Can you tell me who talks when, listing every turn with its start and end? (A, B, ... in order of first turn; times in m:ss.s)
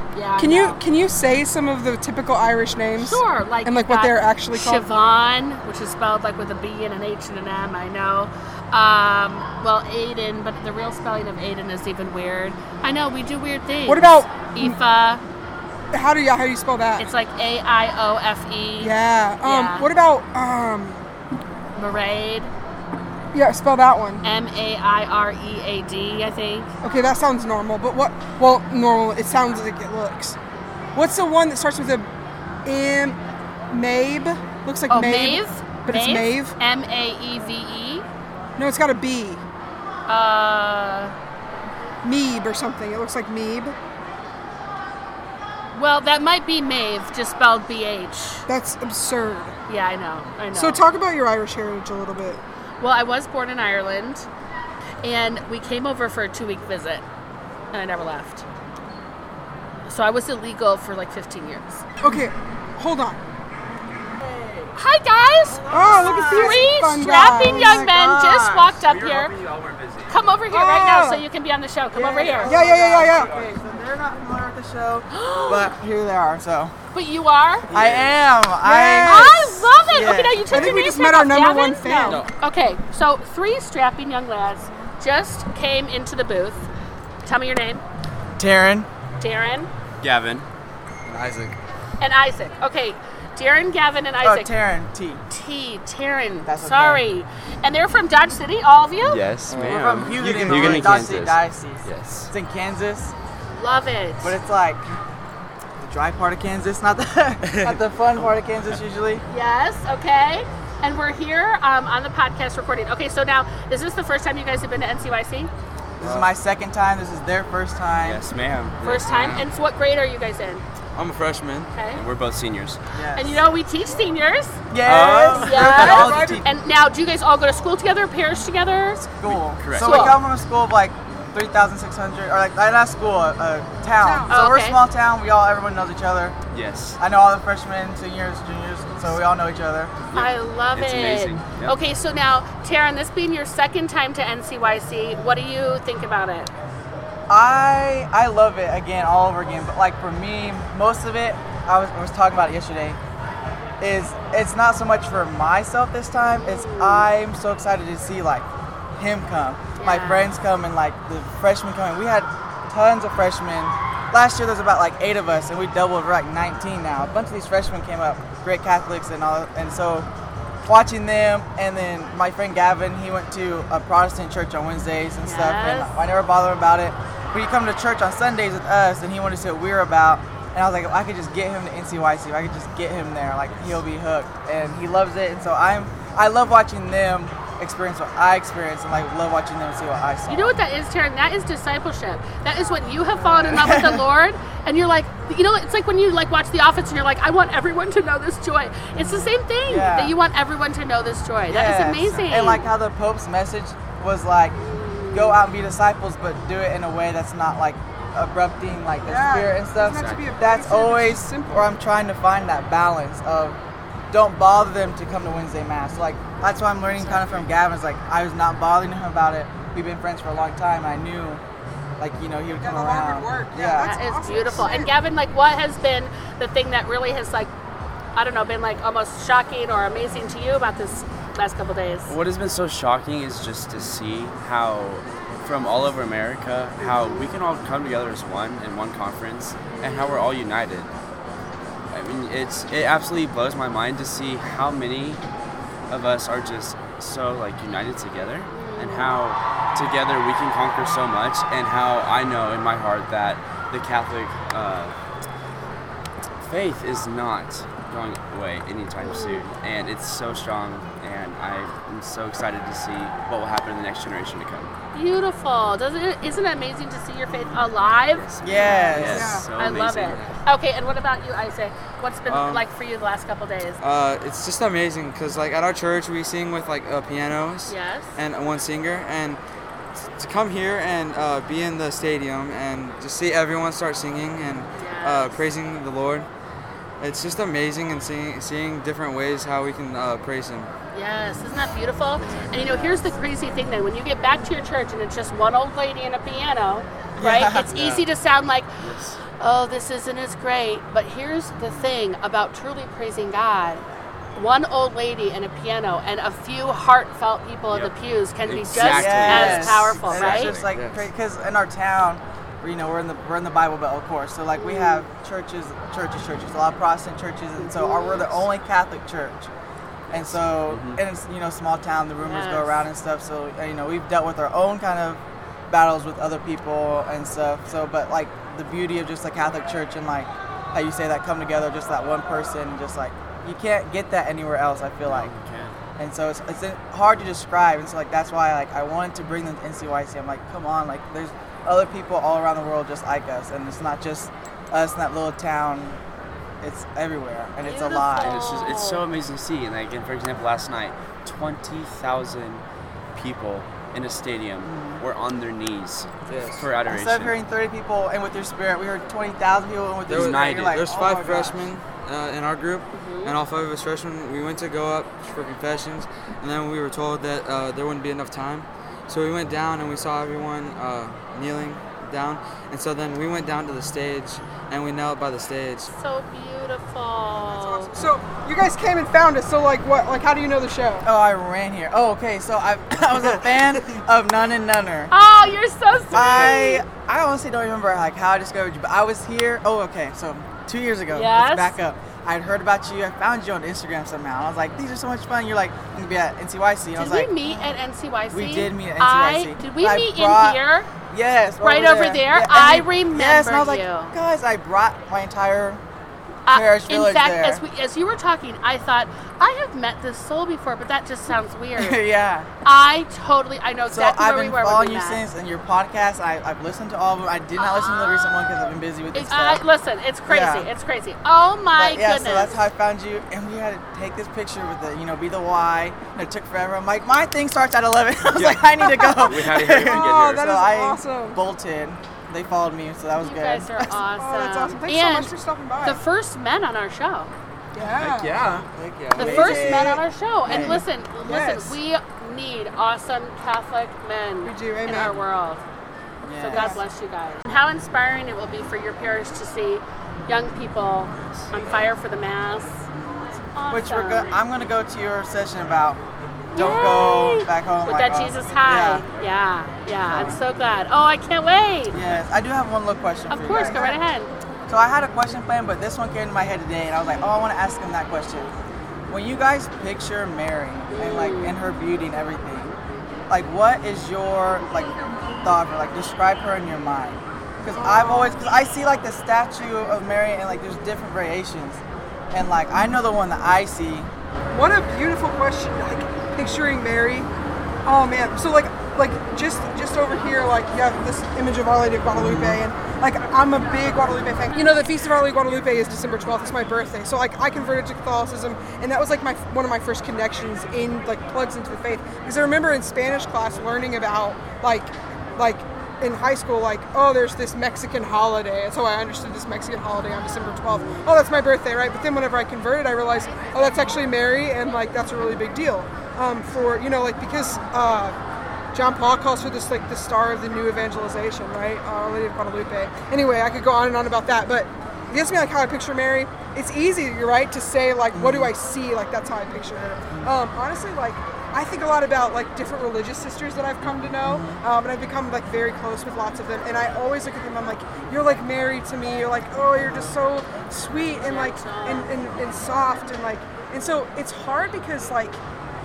0:00.1-0:00.8 A
0:00.4-0:04.8 B
0:03.0-0:15.2 A
0:13.9-0:14.8 B
0:15.9-0:17.1 B
0:17.0-0:19.9 A
0:18.8-0:21.0 B
0:21.8-0:22.5 A
0:23.3-0:24.2 B
0:24.2-0:26.7 A
0:26.8-0:30.4 B
0:31.0-0:32.1 B
0:32.6-0:33.2 B
0:33.7-0:36.6 B
0:34.9-0:38.1 A
0:38.6-0:39.4 B
0:40.1-0:41.2 A
0:42.0-0:43.8 B
0:45.7-0:48.5 A
0:48.5-0:49.6 B
0:49.7-0:50.8 A
0:50.5-0:52.4 B
0:52.8-0:54.3 A
0:55.0-0:57.0 A
0:57.7-0:58.4 A
0:59.9-1:01.8 A
1:02.0-1:03.2 B
1:04.2-1:04.7 C
1:04.8-1:09.3 A
1:05.5-1:08.7 C
1:05.7-1:07.9 B
1:08.8-1:10.1 D
1:10.1-1:12.6 A
1:10.5-1:11.2 B
1:11.9-1:16.7 C
1:12.4-1:13.3 B
1:13.1-1:13.4 D
1:15.1-1:15.7 A
1:16.9-1:17.7 A
1:17.7-1:18.2 D
1:17.7-1:20.5 C
1:18.6-1:19.7 B
1:19.0-1:26.7 A
1:20.5-1:22.2 B
1:27.2-1:27.8 A
1:28.4-1:28.9 C
1:29.2-1:29.7 A
1:30.0-1:30.5 D
1:31.1-1:31.6 E
1:32.0-1:34.5 A
1:34.2-1:35.2 C
1:35.3-1:39.2 A
1:36.5-1:37.0 C
1:39.0-1:42.3 D
1:39.5-1:40.8 E
1:39.6-1:43.1 C
1:43.5-1:44.4 A
1:44.2-1:44.8 C
1:45.8-1:49.2 C
1:47.5-1:47.8 D
1:49.3-1:55.5 A
1:56.0-1:56.3 E
1:56.0-1:58.2 C
1:58.0-1:59.4 D
1:58.8-2:00.6 A
1:59.1-1:59.4 E
2:01.0-2:01.7 E
2:01.7-2:02.0 A
2:01.9-2:02.8 D
2:02.9-2:03.4 C
2:03.2-2:04.6 A
2:04.7-2:06.5 C
2:04.8-2:06.2 D
2:05.3-2:09.1 A
2:05.6-2:06.5 B
2:09.2-2:16.4 C
2:09.2-2:10.2 D
2:09.8-2:10.2 A
2:14.0-2:14.4 B
2:14.3-2:14.8 A
2:16.5-2:17.0 D
2:17.0-2:20.0 C
2:20.1-2:21.8 D
2:20.1-2:26.5 A
2:27.3-2:33.0 C
2:33.8-2:38.5 C
2:36.4-2:37.1 A
2:39.0-2:50.1 C
2:39.8-2:40.4 A
2:50.6-3:10.6 C
2:55.2-2:56.0 A
3:10.3-3:22.7 A
3:13.2-3:14.0 C
3:19.7-3:20.1 C
3:21.5-3:24.6 C
3:24.7-3:25.3 A
3:25.1-3:33.6 C
3:29.0-3:31.8 B
3:29.9-3:30.2 D
3:34.1-3:41.4 C
3:37.0-3:37.5 D
3:42.0-3:44.0 C
3:42.6-3:44.9 B
3:43.8-3:47.5 A
3:48.2-3:52.1 A
3:52.1-4:00.9 D
3:56.8-3:57.3 A
3:59.7-4:00.2 A
4:01.9-4:05.2 D
4:05.9-4:14.9 D
4:08.5-4:09.2 A
4:16.4-4:24.7 D
4:19.0-4:19.4 A
4:24.9-4:33.8 A
4:28.2-4:30.3 D
4:28.4-4:29.3 C
4:28.6-4:29.5 B
4:32.3-4:32.6 E
4:33.8-4:39.4 E
4:37.7-4:38.2 A
4:40.2-4:46.3 E
4:44.8-4:45.4 A
4:47.0-4:50.7 E
4:50.9-4:58.7 A
4:57.2-4:58.0 C
4:58.8-4:59.2 D
4:59.4-5:03.8 A
5:04.4-5:10.5 A
5:08.4-5:10.8 D
5:08.8-5:19.5 C
5:10.7-5:11.0 E
5:14.6-5:15.0 A
5:17.6-5:18.3 A
5:20.1-5:35.3 C
5:20.1-5:21.0 D
5:22.2-5:22.8 A
5:35.0-5:35.8 D
5:36.0-5:46.0 C
5:46.6-5:48.4 C
5:47.6-5:49.0 A
5:48.2-5:52.6 D
5:53.2-5:57.4 D
5:54.6-5:55.0 C
5:56.3-5:56.7 E
5:56.9-6:01.6 C
6:00.1-6:01.0 D
6:00.1-6:15.9 E
6:02.9-6:03.4 A
6:15.9-6:18.0 A
6:17.5-6:21.1 B
6:21.0-6:25.2 C
6:25.1-6:26.8 A
6:26.1-6:37.8 C
6:31.1-6:31.8 A
6:37.0-6:40.9 A
6:38.3-6:45.8 C
6:41.6-6:44.2 A
6:46.5-6:52.0 A
6:46.5-6:47.6 C
6:51.8-6:52.5 C
6:52.6-6:55.2 A
6:53.9-6:59.6 C
6:57.6-6:58.3 A
6:59.1-7:02.6 A
7:00.3-7:00.7 C
7:01.8-7:14.0 C
7:08.3-7:10.5 D
7:09.8-7:11.4 B
7:13.2-7:17.3 A
7:14.2-7:16.0 B
7:17.7-7:18.3 B
7:18.0-7:18.7 D
7:18.7-7:19.6 E
7:19.2-7:20.8 C
7:19.2-7:25.6 A
7:19.5-7:20.0 B
7:20.5-7:21.8 B
7:24.4-7:25.2 B
7:26.2-7:26.8 C
7:26.4-7:32.8 A
7:26.5-7:26.8 B
7:33.6-7:34.3 A
7:33.7-7:36.0 C
7:36.5-7:42.0 A
7:36.6-7:39.0 C
7:40.1-7:40.4 C
7:41.9-7:44.0 C
7:43.3-7:44.3 A
7:44.7-7:48.5 C
7:49.1-7:52.8 C
7:50.9-7:51.6 A
7:53.3-8:01.8 C
7:57.6-7:58.5 B
8:02.3-8:04.1 C
8:04.5-8:07.3 B
8:07.8-8:38.2 B
8:12.2-8:12.6 C
8:38.7-9:05.4 B
8:48.1-8:48.5 C
8:54.2-8:54.6 C
9:01.2-9:02.1 A